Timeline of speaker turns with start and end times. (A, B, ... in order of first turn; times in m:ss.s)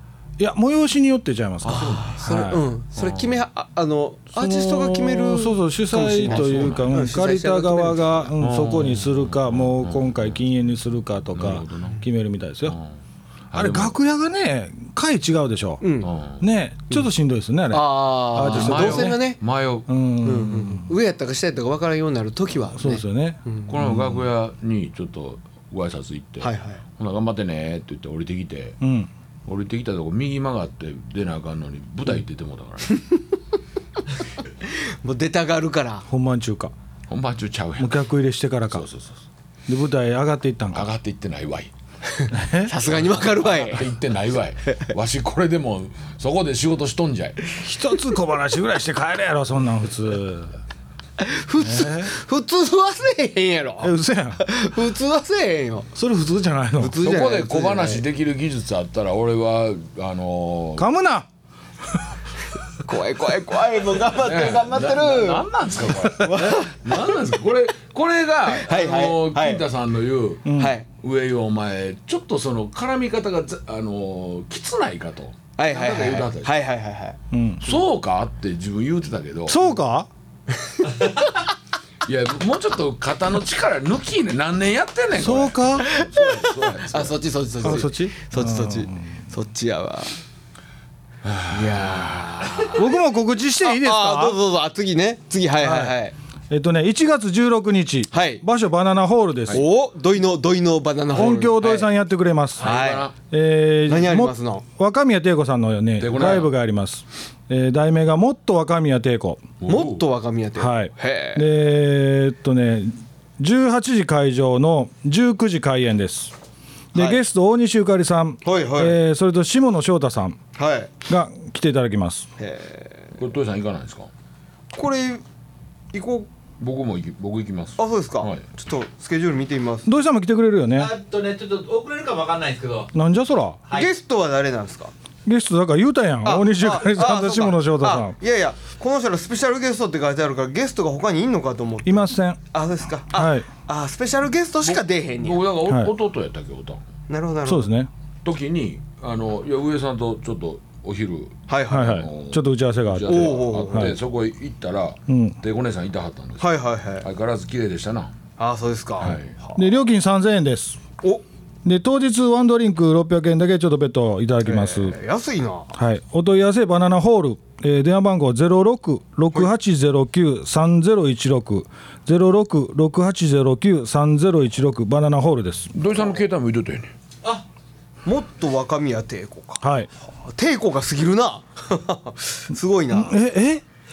0:00.4-0:02.6 A
0:01.6-0:02.2 B
0:01.7-0:08.3 C
0:03.0-0:03.4 B
0:04.4-0:12.8 A
0:06.3-0:07.0 B
0:08.4-0:10.4 B
0:11.3-0:12.0 B
0:12.6-0:13.0 B
0:13.5-0:14.0 B
0:13.5-0:15.8 A
0:15.8-0:16.1 C
0:16.0-0:16.4 B
0:16.4-0:19.2 A
0:17.7-0:19.4 C
0:18.5-0:19.9 B
0:19.9-0:20.9 A
0:20.2-0:23.7 C
0:22.8-0:24.1 A
0:23.7-0:28.8 B
0:26.4-0:26.8 C
0:28.8-0:29.1 A
0:29.4-0:32.9 B
0:34.6-0:36.0 C
0:36.1-0:36.7 A
0:37.1-0:38.0 B
0:37.8-0:38.8 A
0:38.7-0:39.2 B
0:39.7-0:40.9 A
0:40.7-0:41.7 B
0:42.2-0:43.9 C
0:42.3-0:42.7 A
0:42.8-0:47.4 B
0:47.6-0:50.6 A
0:51.2-0:55.9 C
0:51.6-0:52.1 A
0:53.8-0:54.4 A
0:55.9-0:57.0 A
0:56.8-0:58.0 C
0:57.0-1:00.9 B
1:00.8-1:01.3 A
1:02.8-1:05.4 C
1:04.1-1:10.5 B
1:06.2-1:07.2 C
1:08.5-1:09.6 C
1:10.4-1:10.7 A
1:10.6-1:10.9 C
1:11.0-1:16.5 B
1:15.6-1:17.2 C
1:17.3-1:17.6 A
1:17.6-1:19.6 B
1:19.5-1:20.1 A
1:20.6-1:21.1 C
1:22.0-1:27.2 B
1:25.2-1:25.9 A
1:25.8-1:30.1 C
1:27.6-1:29.1 A
1:31.2-1:32.7 B
1:31.5-1:33.0 C
1:32.7-1:34.4 A
1:33.6-1:36.1 C
1:35.6-1:35.9 A
1:36.5-1:39.6 A
1:38.1-1:38.4 C
1:39.5-1:41.9 C
1:41.1-1:42.7 A
1:42.6-1:43.1 C
1:42.6-1:43.1 B
1:43.3-1:49.4 A
1:43.9-1:44.6 C
1:46.0-1:46.5 B
1:49.6-1:50.0 B
1:49.7-1:51.5 C
1:50.6-1:56.3 A
1:56.9-1:57.2 C
1:56.9-2:00.4 A
1:58.4-1:59.0 C
2:00.5-2:00.9 C
2:01.1-2:02.3 A
2:02.4-2:03.1 C
2:03.2-2:04.1 B
2:04.7-2:05.2 C
2:05.9-2:06.3 C
2:06.6-2:08.4 B
2:07.8-2:09.9 C
2:09.8-2:10.9 A
2:10.8-2:12.9 D
2:12.9-2:13.6 A
2:13.7-2:14.9 C
2:15.2-2:18.1 A
2:16.2-2:25.4 C
2:21.8-2:22.4 A
2:23.1-2:23.5 A
2:24.6-2:26.8 B
2:25.7-2:25.9 A
2:27.1-2:27.7 C
2:27.4-2:27.9 A
2:28.2-2:38.2 B
2:31.5-2:32.0 C
2:31.7-2:33.9 A
2:33.0-2:33.9 C
2:35.1-2:35.4 A
2:36.4-2:37.0 C
2:38.4-2:39.6 C
2:39.0-2:39.3 B
2:39.5-2:40.8 A
2:41.6-2:45.0 A
2:44.4-2:45.7 C
2:45.8-2:55.7 A
2:55.7-2:56.9 B
2:58.0-2:59.6 C
2:59.6-2:59.9 A
3:00.2-3:03.1 C
3:02.9-3:03.6 A